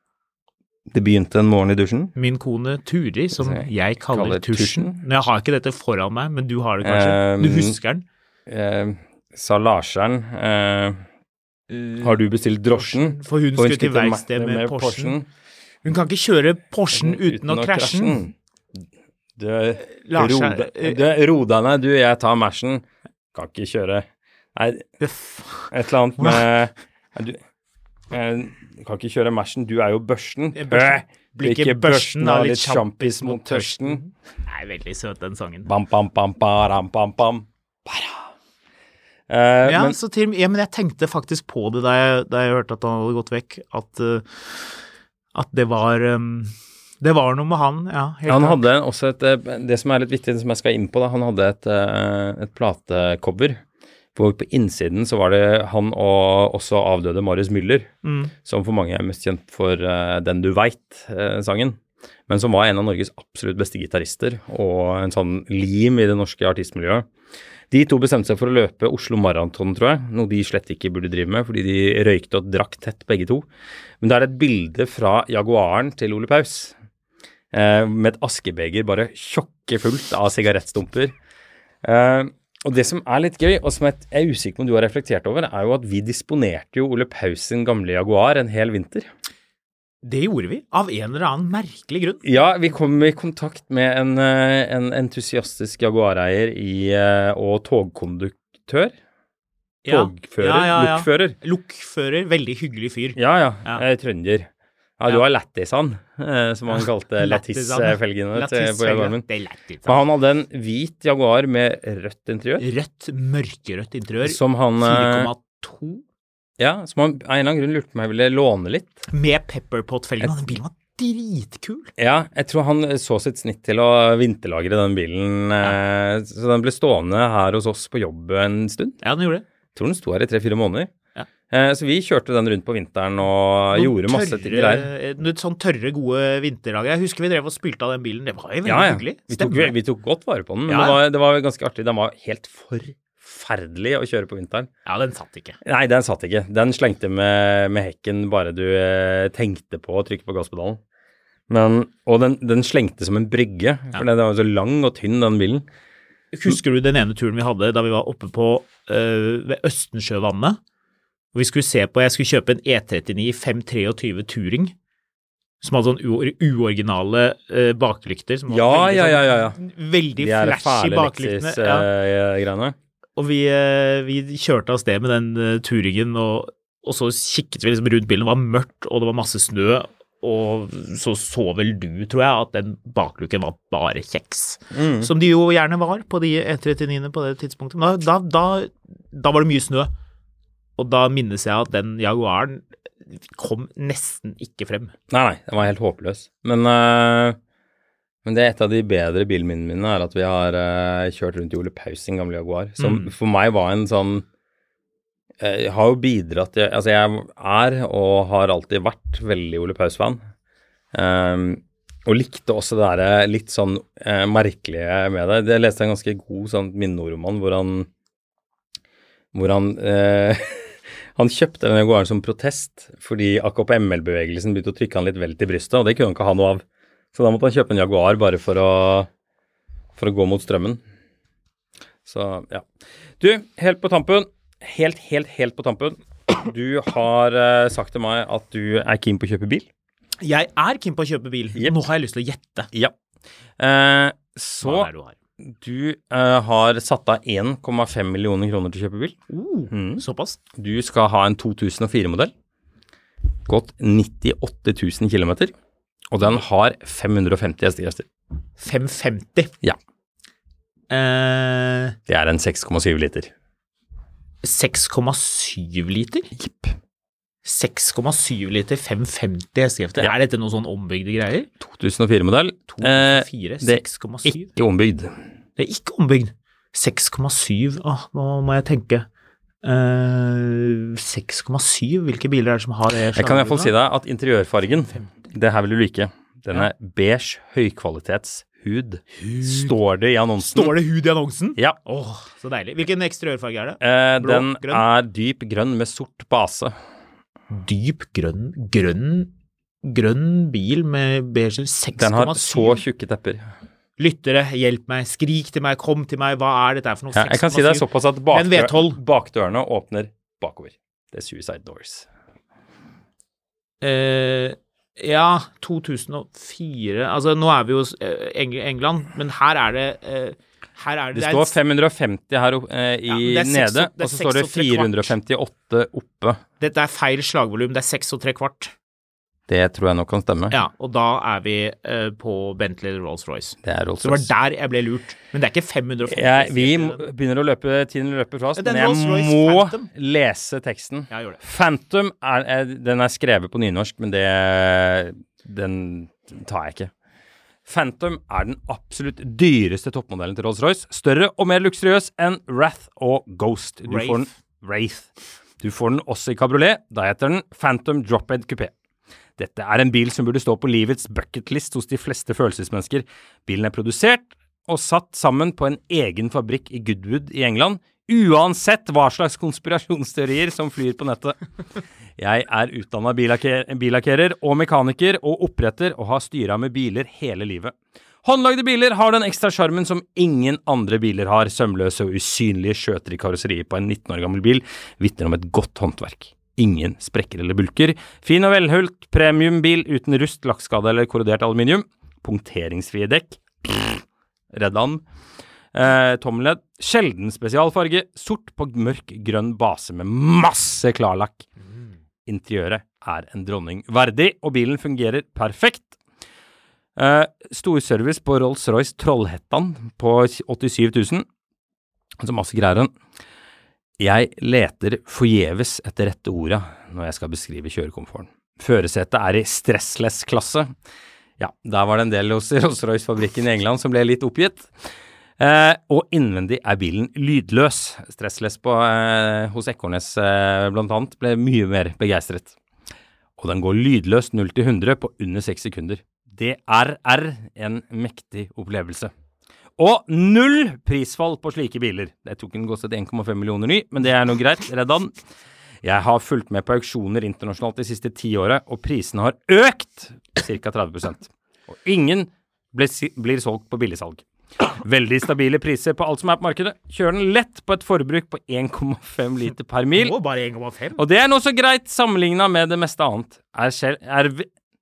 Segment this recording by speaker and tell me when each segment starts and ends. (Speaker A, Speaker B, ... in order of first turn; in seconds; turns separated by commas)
Speaker A: 0.9-2.1, Speaker B: 2.1-8.0, Speaker A: 3.4-5.0, Speaker A: 6.8-7.8, Speaker A: 8.5-11.0, Speaker B: 11.7-12.1, Speaker A: 12.0-15.2, Speaker B: 12.8-15.2, Speaker B: 15.8-18.2, Speaker A: 16.9-18.3, Speaker A: 19.4-24.9, Speaker B: 19.9-21.0, Speaker B: 25.0-26.4, Speaker A: 25.7-27.4, Speaker A: 28.1-34.0, Speaker B: 30.5-35.7, Speaker A: 35.6-38.3, Speaker A: 39.3-40.0, Speaker B: 39.6-44.8, Speaker B: 45.3-48.6, Speaker A: 48.3-53.6, Speaker A: 54.1-57.9, Speaker B: 58.0-58.3, Speaker A: 58.4-67.1, Speaker A: 67.7-73.4, Speaker A: 74.0-76.7, Speaker A: 77.5-81.1, Speaker A: 81.8-89.1, Speaker B: 90.0-92.2, Speaker A: 92.2-98.9, Speaker B: 99.8-103.8, Speaker A: 99.9-101.4, Speaker A: 103.2-104.5, Speaker A: 105.0-109.2, Speaker B: 106.7-110.0, Speaker A: 109.8-112.6, Speaker B: 112.6-116.0, Speaker A: 114.2-115.3, Speaker A: 116.6-119.0, Speaker B: 119.1-121.9, Speaker A: 122.0-129.0, Speaker B: 129.0-129.4, Speaker A: 129.7-130.9, Speaker A: 131.5-134.9, Speaker B: 133.7-139.7, Speaker A: 138.6-144.7, Speaker B: 140.7-141.0, Speaker B: 144.9-145.6, Speaker A: 145.6-150.8, Speaker A: 151.5-155.6, Speaker B: 156.3-160.6, Speaker B: 161.3-164.7, Speaker B: 165.6-171.9, Speaker A: 168.5-169.6, Speaker A: 170.2-172.8, Speaker B: 173.2-189.9, Speaker A: 184.7-185.1, Speaker B: 190.8-194.9, Speaker A: 195.1-197.4, Speaker A: 198.2-204.2, Speaker B: 202.8-203.1, Speaker A: 205.4-210.2, Speaker A: 210.9-217.9, Speaker A: 219.3-226.6, Speaker A: 227.1-229.1, Speaker A: 229.9-230.8, Speaker A: 232.1-232.7, Speaker A: 233.2-239.7, Speaker B: 240.2-242.7, Speaker A: 243.6-244.9, Speaker B: 244.6-245.2, Speaker A: 245.6-249.2, Speaker B: 249.3-250.4, Speaker A: 249.7-250.0, Speaker A: 250.5-252.3, Speaker A: 253.5-255.5, Speaker A: 256.1-258.1, Speaker B: 258.6-259.5, Speaker B: 260.9-262.0, Speaker A: 262.1-263.3, Speaker B: 264.4-266.3, Speaker A: 266.4-266.8, Speaker B: 267.4-271.5, Speaker A: 271.6-275.1, Speaker B: 272.7-274.5, Speaker B: 275.6-279.1, Speaker B: 279.6-283.7, Speaker A: 283.1-290.7, Speaker B: 284.9-285.1, Speaker B: 289.2-289.7, Speaker B: 290.4-294.8, Speaker A: 293.8-296.7, Speaker B: 297.5-299.3, Speaker B: 299.8-302.8, Speaker A: 301.9-303.5, Speaker B: 304.0-309.0, Speaker A: 307.1-312.1, Speaker B: 313.8-321.5, Speaker A: 321.1-326.4, Speaker B: 323.1-325.1, Speaker B: 326.6-328.7, Speaker A: 329.5-330.6, Speaker B: 330.5-337.0, Speaker A: 333.6-334.3, Speaker A: 336.1-346.9, Speaker B: 338.6-339.9, Speaker B: 341.1-341.4, Speaker A: 347.6-355.1, Speaker B: 353.9-354.3, Speaker A: 355.6-358.7, Speaker A: 359.4-371.4, Speaker A: 372.2-395.0, Speaker A: 395.7-401.5, Speaker A: 402.2-405.9, Speaker A: 406.9-411.2, Speaker A: 412.2-412.9, Speaker A: 414.0-420.7, Speaker A: 421.4-424.7, Speaker A: 425.4-432.5, Speaker A: 433.4-439.1, Speaker A: 439.8-445.1, Speaker A: 445.8-460.1, Speaker B: 459.9-461.0, Speaker A: 461.0-464.5